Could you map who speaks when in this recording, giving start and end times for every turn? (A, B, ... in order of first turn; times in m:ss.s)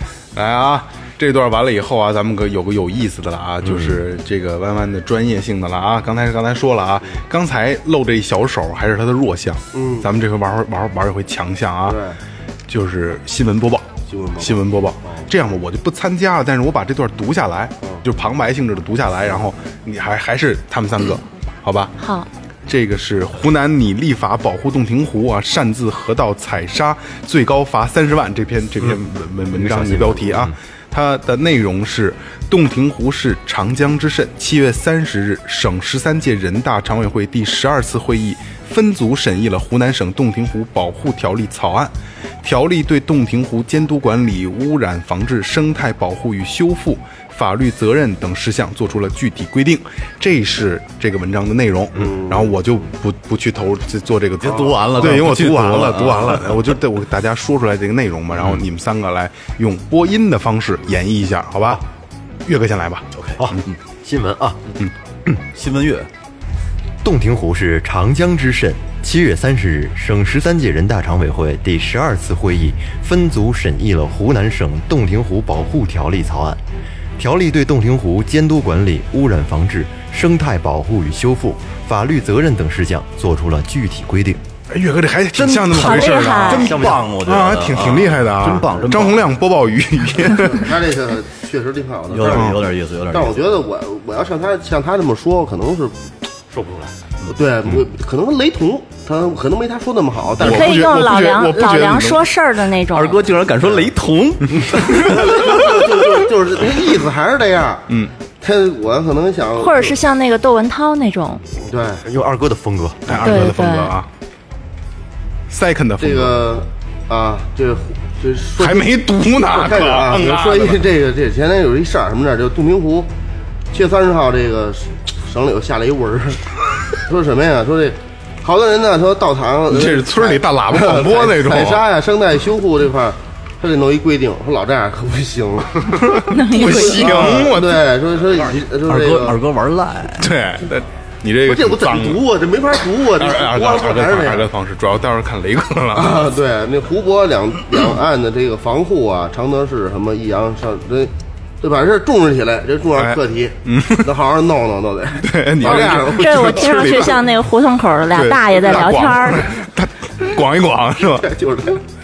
0:00.4-0:12.0 A
0:03.6-0:04.0 B
0:09.8-0:10.1 C
0:11.9-0:12.2 C
0:12.7-0:21.9 A
0:14.1-0:15.3 C
0:22.0-0:22.3 D
0:22.7-1:01.8 A
0:29.5-0:30.5 B
0:52.0-0:52.5 C
0:54.4-0:56.7 E
1:02.5-1:03.1 A
1:03.1-1:03.7 E
1:03.4-1:04.6 B
1:05.5-1:06.1 E
1:07.0-1:16.6 B
1:17.2-1:24.4 B
1:24.7-1:30.8 A
1:25.4-1:29.3 E
1:25.7-1:26.7 D
1:26.5-1:27.0 B
1:30.4-1:36.0 C
1:32.1-1:33.4 E
1:32.3-1:32.6 A
1:36.5-1:37.0 B
1:37.3-1:40.9 C
1:40.4-1:42.3 A
1:40.4-1:43.2 D
1:42.9-1:45.4 E
1:44.9-1:47.9 C
1:48.4-1:50.0 C
1:49.6-1:51.4 D
1:51.6-1:52.0 C
1:52.0-1:53.5 B
1:53.1-1:54.1 A
1:53.2-1:54.0 D
1:55.5-1:56.4 A
1:56.0-1:58.9 C
1:58.6-2:00.8 A
1:59.5-2:03.1 C
2:03.7-2:19.4 C
2:09.7-2:11.8 A
2:16.0-2:17.9 A
2:16.3-2:17.3 D
2:18.8-2:20.4 E
2:20.2-2:22.2 A
2:21.5-2:24.5 C
2:23.2-2:26.2 A
2:25.9-2:37.1 C
2:33.0-2:34.1 A
2:35.2-2:37.3 A
2:35.6-2:39.5 D
2:38.1-2:41.3 A
2:41.2-2:41.8 C